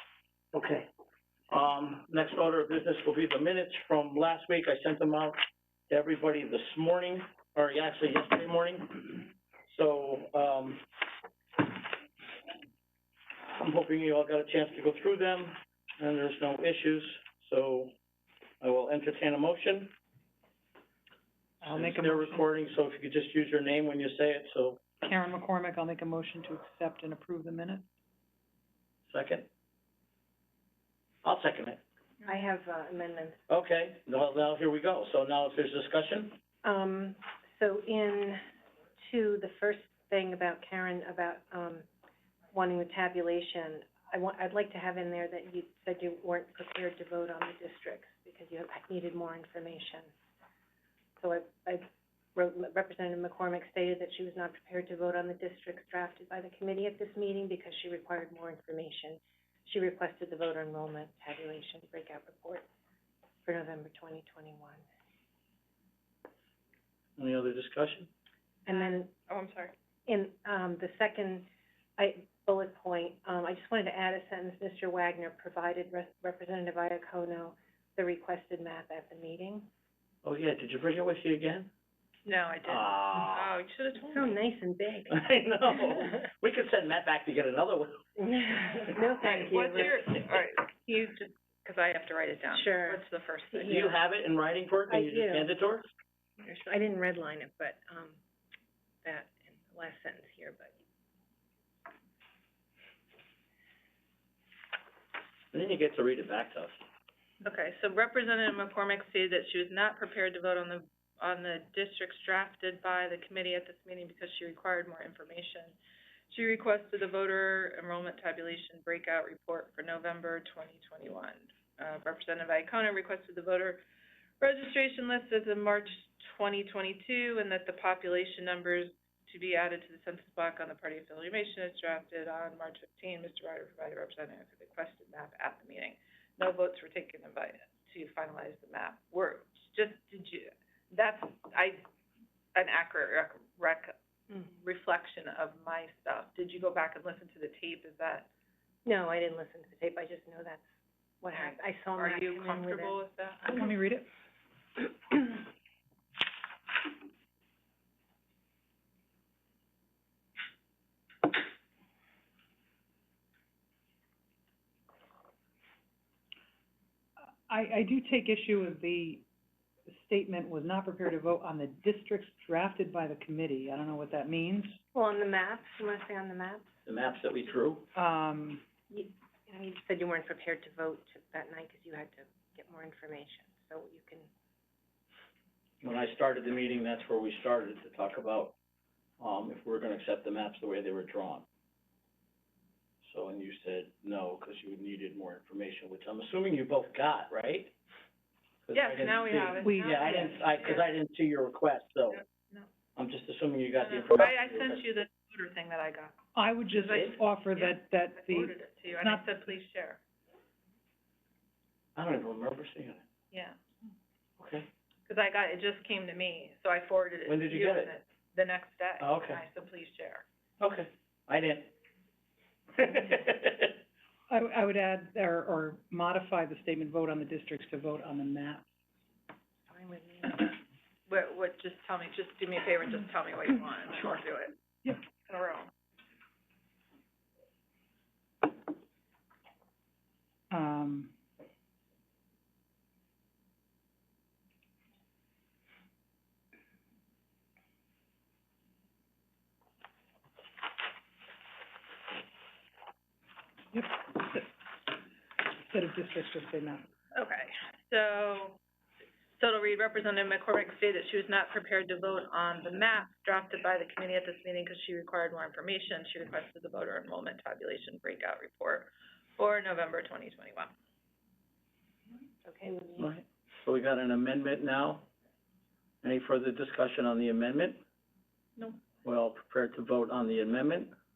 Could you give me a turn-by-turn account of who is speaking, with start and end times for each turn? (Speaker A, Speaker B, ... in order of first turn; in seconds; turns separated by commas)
Speaker A: 0.5-0.9, Speaker A: 1.5-5.4, Speaker A: 5.9-10.8, Speaker A: 13.4-17.9, Speaker A: 18.6-19.9, Speaker B: 21.6-22.5, Speaker A: 21.6-24.8, Speaker B: 25.0-27.9, Speaker A: 29.1-29.5, Speaker A: 31.2-31.8, Speaker C: 32.2-33.4, Speaker A: 33.5-36.4, Speaker C: 36.6-38.4, Speaker C: 39.1-41.9, Speaker C: 42.5-50.1, Speaker C: 51.2-62.6, Speaker C: 63.5-64.8, Speaker A: 67.2-68.1, Speaker C: 68.7-69.1, Speaker D: 68.7-69.7, Speaker C: 70.1-79.7, Speaker A: 80.2-81.7, Speaker D: 82.2-84.3, Speaker A: 82.7-83.5, Speaker C: 84.0-86.0, Speaker A: 85.1-88.0, Speaker C: 88.2-90.1, Speaker D: 89.2-93.9, Speaker C: 92.5-94.0, Speaker A: 93.7-95.9, Speaker C: 94.9-95.5, Speaker C: 96.4-98.2, Speaker C: 99.0-100.8, Speaker A: 105.5-106.8, Speaker D: 107.4-115.8, Speaker D: 116.3-123.8, Speaker D: 124.4-141.8, Speaker D: 142.6-148.3, Speaker C: 148.8-150.7, Speaker C: 151.2-153.0, Speaker D: 151.3-153.5, Speaker B: 153.4-154.1, Speaker B: 167.2-169.2, Speaker B: 169.9-174.8, Speaker C: 174.9-176.7, Speaker A: 176.9-177.9, Speaker B: 177.9-178.6, Speaker C: 178.9-184.3, Speaker A: 185.8-188.6, Speaker A: 189.2-191.4, Speaker A: 193.0-197.7, Speaker A: 198.7-202.2, Speaker D: 198.7-200.9, Speaker B: 199.6-200.3, Speaker D: 202.1-202.7, Speaker A: 203.0-204.9, Speaker D: 203.8-206.2, Speaker B: 206.3-209.3, Speaker D: 206.7-210.0, Speaker A: 206.9-207.2, Speaker A: 212.0-213.0, Speaker D: 213.3-213.6, Speaker A: 214.4-214.7, Speaker D: 215.1-220.2, Speaker A: 217.3-217.9, Speaker A: 219.0-219.4, Speaker A: 220.6-221.7, Speaker A: 222.8-223.8, Speaker B: 224.3-228.7, Speaker C: 229.7-230.5, Speaker D: 231.1-234.6, Speaker D: 235.3-235.7, Speaker B: 240.5-241.1, Speaker B: 253.7-254.5, Speaker B: 255.4-256.9, Speaker D: 257.1-258.6, Speaker D: 259.4-270.7, Speaker C: 272.4-273.1, Speaker A: 273.0-275.1, Speaker A: 276.0-277.8, Speaker A: 279.0-280.9